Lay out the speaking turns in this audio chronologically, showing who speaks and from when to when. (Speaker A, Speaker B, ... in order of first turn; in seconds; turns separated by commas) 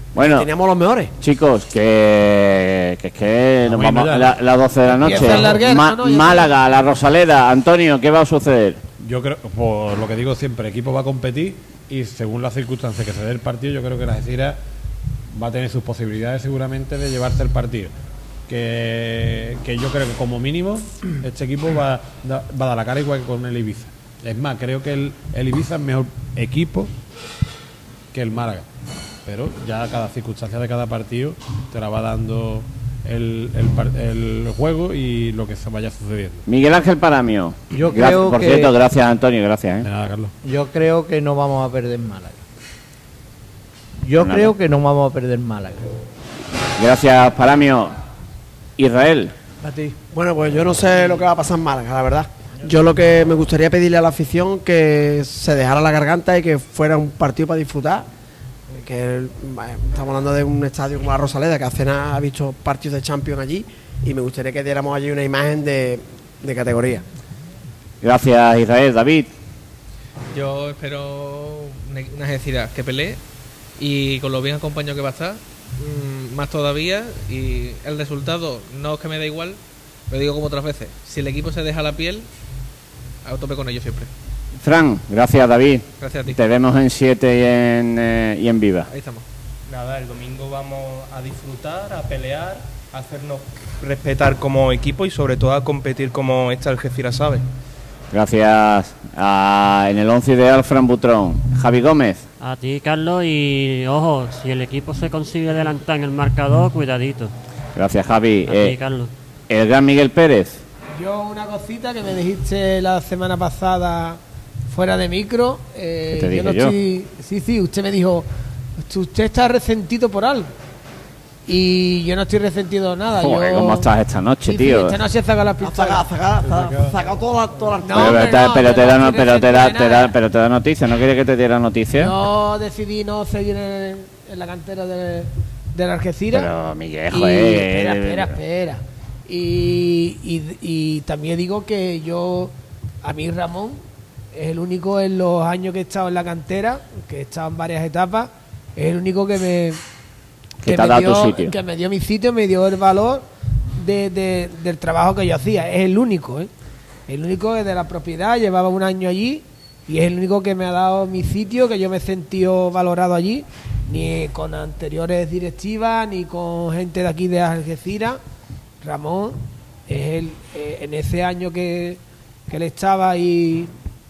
Speaker A: 0.2-0.5, Speaker B: 0.2-1.1, Speaker A: 1.2-8.8, Speaker C: 3.7-4.3, Speaker D: 4.9-6.5, Speaker C: 5.2-5.4, Speaker C: 9.0-14.6, Speaker C: 15.3-17.9, Speaker C: 18.5-26.9, Speaker C: 28.1-28.7, Speaker C: 29.2-36.4, Speaker A: 36.5-39.9, Speaker E: 37.7-38.7, Speaker C: 39.8-40.3, Speaker E: 40.4-42.4, Speaker E: 44.0-45.9, Speaker A: 44.2-44.5, Speaker A: 46.8-47.9, Speaker A: 48.8-49.4, Speaker E: 49.6-50.0, Speaker B: 50.1-58.1, Speaker B: 58.7-67.0, Speaker A: 68.0-69.3, Speaker F: 70.3-73.2, Speaker F: 73.8-79.6, Speaker F: 80.1-82.3, Speaker F: 83.2-84.1, Speaker A: 84.6-88.9, Speaker F: 86.0-86.4, Speaker F: 88.9-89.2, Speaker G: 89.7-97.4, Speaker A: 98.1-102.2, Speaker H: 102.4-107.3, Speaker A: 107.8-108.8, Speaker H: 108.5-109.1, Speaker A: 109.5-110.6, Speaker D: 111.0-118.3, Speaker A: 116.1-116.7, Speaker D: 118.8-120.5, Speaker D: 121.5-123.9, Speaker A: 123.2-125.0, Speaker D: 124.5-126.1, Speaker B: 125.6-128.4, Speaker D: 127.8-130.1, Speaker A: 127.9-132.1, Speaker D: 131.9-136.5, Speaker A: 136.3-138.3, Speaker D: 137.1-143.8, Speaker D: 144.3-149.8, Speaker A: 150.6-151.6, Speaker D: 150.6-156.5, Speaker D: 157.1-168.2, Speaker D: 168.8-173.7